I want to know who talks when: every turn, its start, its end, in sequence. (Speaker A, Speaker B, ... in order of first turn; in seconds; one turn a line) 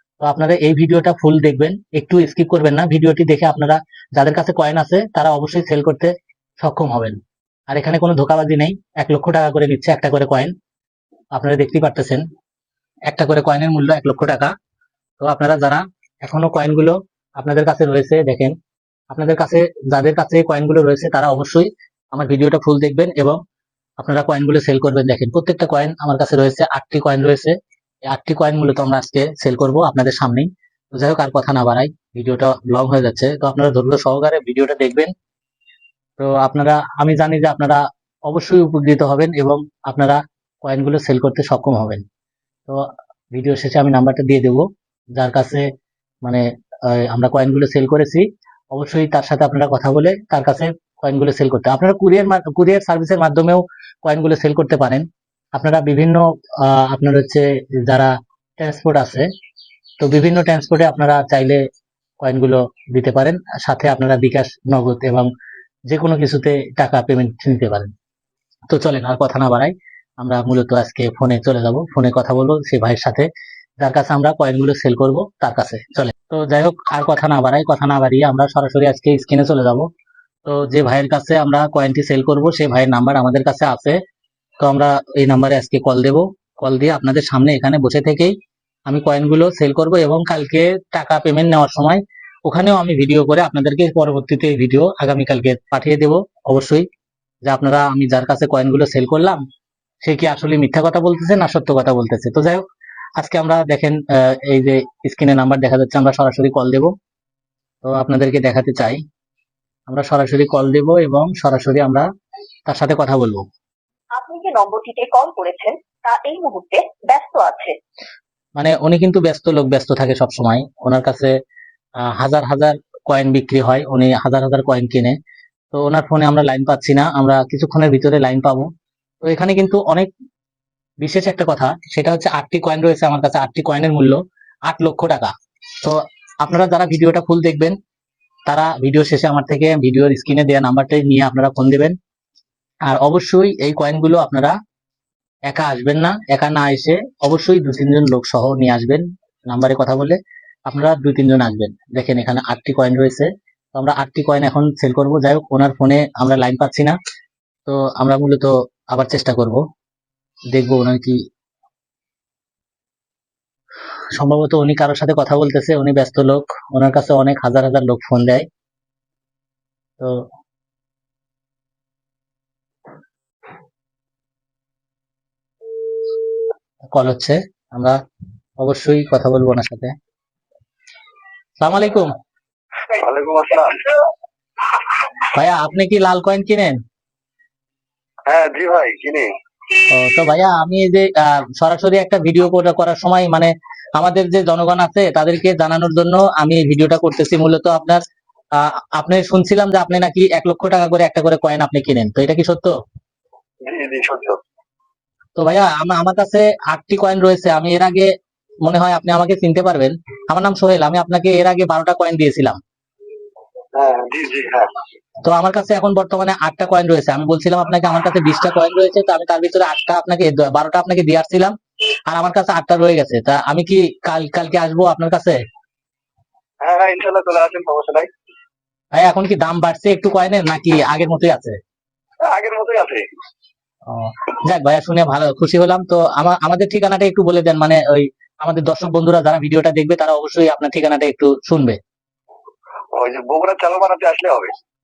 Speaker A: 0.2-10.5
Speaker A: 11.3-12.2
Speaker A: 13.1-14.5
Speaker A: 15.2-18.5
Speaker A: 19.1-23.4
Speaker A: 24.0-27.6
Speaker A: 28.1-35.1
Speaker A: 36.2-42.0
Speaker A: 42.7-45.7
Speaker A: 46.2-59.3
Speaker A: 60.0-61.6
Speaker A: 62.2-65.3
Speaker A: 65.9-67.9
Speaker A: 68.7-73.3
Speaker A: 73.8-79.9
Speaker A: 80.5-84.0
Speaker A: 84.6-88.3
Speaker A: 88.9-96.8
Speaker A: 97.5-99.4
Speaker A: 100.0-102.6
Speaker A: 103.2-106.9
Speaker A: 107.8-109.0
Speaker A: 109.9-112.1
Speaker A: 112.7-113.4
Speaker B: 114.2-117.8
Speaker A: 118.6-121.3
Speaker A: 122.0-125.2
Speaker A: 125.7-128.7
Speaker A: 129.2-130.1
Speaker A: 131.0-137.8
Speaker A: 138.5-141.9
Speaker A: 142.8-144.5
Speaker A: 145.5-156.9
Speaker A: 157.7-159.6
Speaker A: 160.5-161.2
Speaker A: 164.1-168.4
Speaker A: 170.0-170.2
Speaker A: 176.9-178.0
Speaker A: 178.6-179.9
Speaker A: 181.6-182.1
Speaker C: 182.9-183.9
Speaker A: 185.3-186.8
Speaker C: 188.3-189.3
Speaker A: 189.9-198.0
Speaker A: 198.5-202.8
Speaker C: 203.7-204.4
Speaker A: 205.4-208.1
Speaker A: 208.6-212.6
Speaker C: 213.8-214.7
Speaker A: 215.2-221.5
Speaker A: 222.1-225.4
Speaker C: 226.6-228.1
Speaker A: 228.9-231.6
Speaker C: 232.2-233.0
Speaker A: 233.9-241.8
Speaker C: 242.9-244.5